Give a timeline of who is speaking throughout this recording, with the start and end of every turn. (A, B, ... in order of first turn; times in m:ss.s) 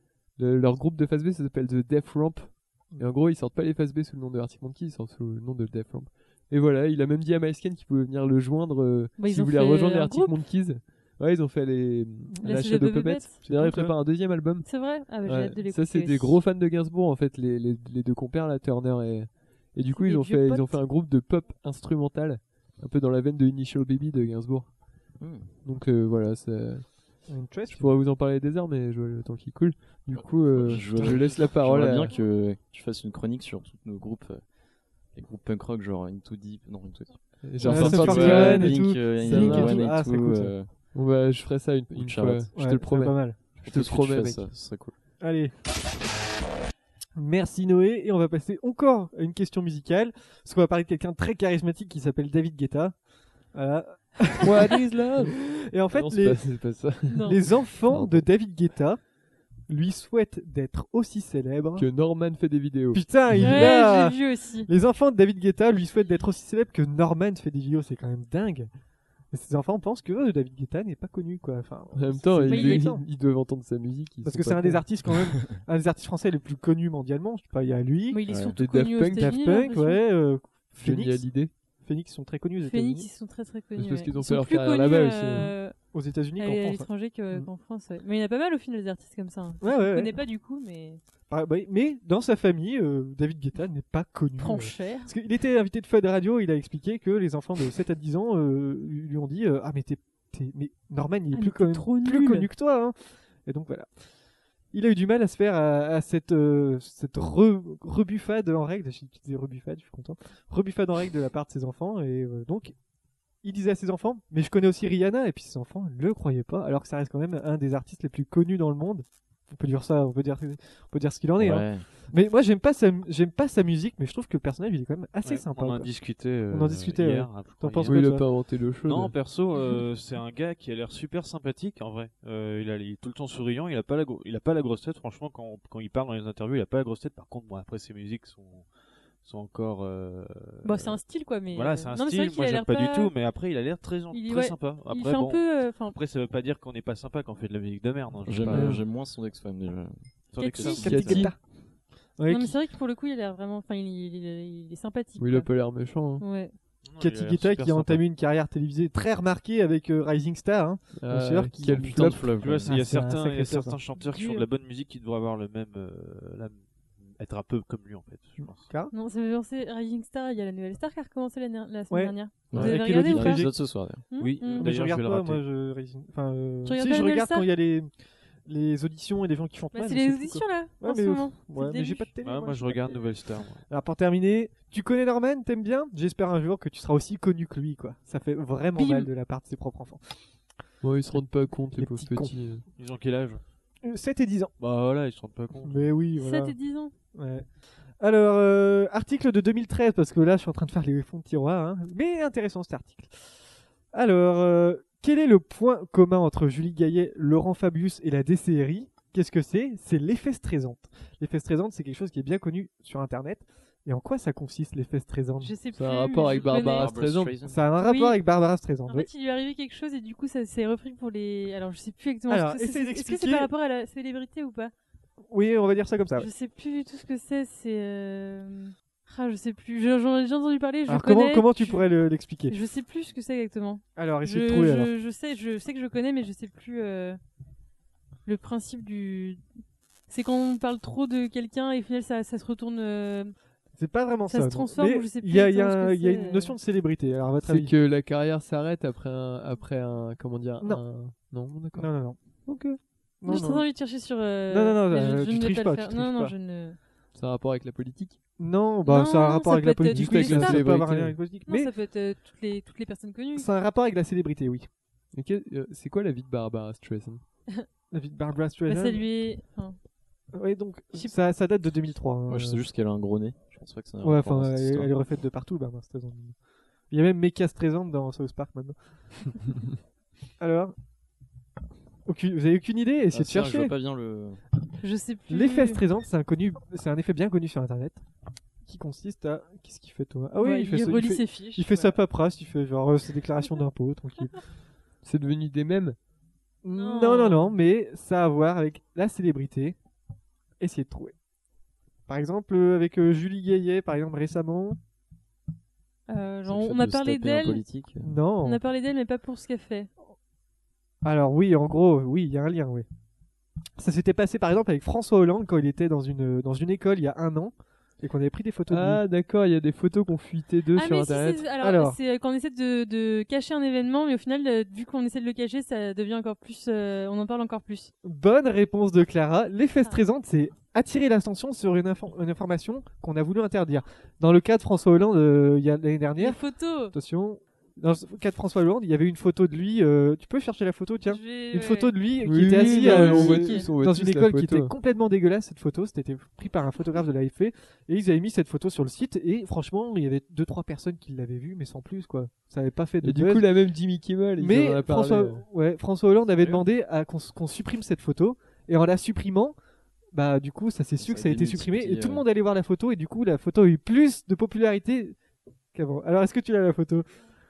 0:00.4-0:14.7 A
0:09.2-0:10.4 B
0:12.4-0:12.6 C
0:12.4-0:13.4 B
0:13.4-0:13.9 C
0:14.6-0:16.4 B
0:15.2-0:24.7 A
0:19.9-0:20.8 B
0:25.2-0:25.5 D
0:25.6-0:32.1 A
0:27.3-0:27.9 C
0:30.1-0:40.7 D
0:37.4-0:39.9 A
0:37.6-0:40.5 C
0:40.9-0:44.5 A
0:41.9-0:42.5 D
0:42.5-0:43.4 C
0:43.6-0:44.9 D
0:45.2-0:45.5 C
0:47.1-0:53.0 C
0:53.5-0:56.7 C
0:54.4-0:58.2 A
0:57.1-0:57.4 B
0:57.2-0:59.0 C
0:59.7-1:01.9 C
1:01.8-1:03.5 A
1:02.9-1:08.7 C
1:03.3-1:04.7 B
1:09.3-1:13.0 C
1:11.9-1:15.1 A
1:12.5-1:12.8 B
1:14.2-1:18.2 C
1:18.1-1:20.0 B
1:18.3-1:18.6 D
1:18.6-1:19.4 A
1:19.2-1:21.3 C
1:20.8-1:21.5 A
1:21.8-1:23.1 C
1:22.6-1:25.8 B
1:23.8-1:25.5 A
1:25.9-1:27.5 C
1:26.4-1:31.0 B
1:29.6-1:30.1 C
1:31.3-1:43.9 C
1:34.4-1:35.1 B
1:41.3-1:42.5 B
1:44.7-1:52.8 C
1:53.4-2:05.9 C
2:01.4-2:01.9 D
2:05.2-2:08.1 E
2:06.5-2:08.3 C
2:07.8-2:09.2 A
2:08.8-2:18.7 E
2:19.2-2:21.0 E
2:20.6-2:23.1 B
2:21.5-2:28.8 E
2:24.1-2:26.0 B
2:28.2-2:31.3 D
2:30.3-2:30.9 E
2:30.4-2:31.3 B
2:30.6-2:31.4 C
2:30.8-2:31.3 A
2:32.2-2:32.6 C
2:32.3-2:35.5 B
2:35.2-2:36.2 A
2:36.2-2:36.5 B
2:36.8-2:38.0 E
2:37.0-2:43.8 C
2:41.0-2:42.3 A
2:41.7-2:42.8 D
2:42.4-2:48.7 E
2:44.0-2:44.5 B
2:48.4-2:48.9 C
2:48.9-2:53.5 B
2:51.9-2:53.5 C
2:52.5-2:54.0 D
2:54.1-2:54.7 B
2:54.2-2:55.4 E
2:54.6-2:57.9 C
2:56.6-2:57.5 B
2:58.4-3:03.0 C
2:59.7-3:02.1 B
3:02.2-3:03.6 E
3:03.7-3:10.0 C
3:08.8-3:09.1 B
3:10.8-3:12.6 A
3:11.8-3:12.3 C
3:12.8-3:13.4 E
3:13.8-3:14.5 C
3:14.6-3:15.9 E
3:15.6-3:16.5 C
3:16.2-3:16.9 B
3:17.1-3:17.5 C
3:18.0-3:23.1 C
3:23.9-3:35.5 C
3:35.4-3:37.0 B
3:35.7-3:37.4 A
3:36.2-3:37.7 D
3:37.4-3:39.1 C
3:37.8-3:38.2 B
3:38.9-3:44.7 B
3:42.3-3:43.5 C
3:45.3-3:46.3 C
3:46.2-3:51.8 B
3:50.9-3:52.6 C
3:52.5-3:57.2 B
3:54.0-3:54.9 C
3:58.2-3:59.4 B
4:00.1-4:03.3 B
4:03.8-4:07.7 C
4:04.3-4:06.5 B
4:07.4-4:11.9 A
4:11.7-4:13.6 C
4:13.2-4:16.8 B
4:14.5-4:16.3 C
4:17.1-4:18.2 A
4:18.4-4:21.7 C
4:18.8-4:20.6 B
4:19.8-4:21.2 A
4:21.5-4:23.5 B
4:23.4-4:24.7 C
4:25.1-4:27.2 A
4:27.9-4:29.0 C
4:28.7-4:29.8 B
4:30.3-4:32.6 C
4:32.3-4:34.9 D
4:34.0-4:36.3 C
4:36.9-4:39.5 C
4:40.4-4:40.7 C
4:42.0-4:43.7 C
4:43.1-4:44.4 D
4:44.8-4:45.8 B
4:45.3-4:48.0 C
4:48.6-4:54.4 C
4:50.4-4:52.0 B
4:55.0-4:56.0 A
4:56.6-4:59.8 C
4:56.7-4:57.5 B
5:00.6-5:01.1 C
5:02.1-5:04.8 C
5:06.1-5:07.6 B
5:06.4-5:08.2 D
5:08.0-5:08.6 C
5:08.4-5:09.9 B
5:11.0-5:12.8 C
5:13.8-5:19.0 C
5:18.7-5:21.4 A
5:20.7-5:27.9 B
5:21.6-5:22.0 C
5:28.0-5:36.4 C
5:36.2-5:36.9 B
5:36.9-5:53.5 C
5:41.0-5:41.9 B
5:42.2-5:44.7 A
5:42.5-5:43.7 B
5:53.0-5:55.4 A
5:54.4-5:59.5 C
6:00.1-6:05.2 C
6:01.0-6:02.2 D
6:05.7-6:07.1 C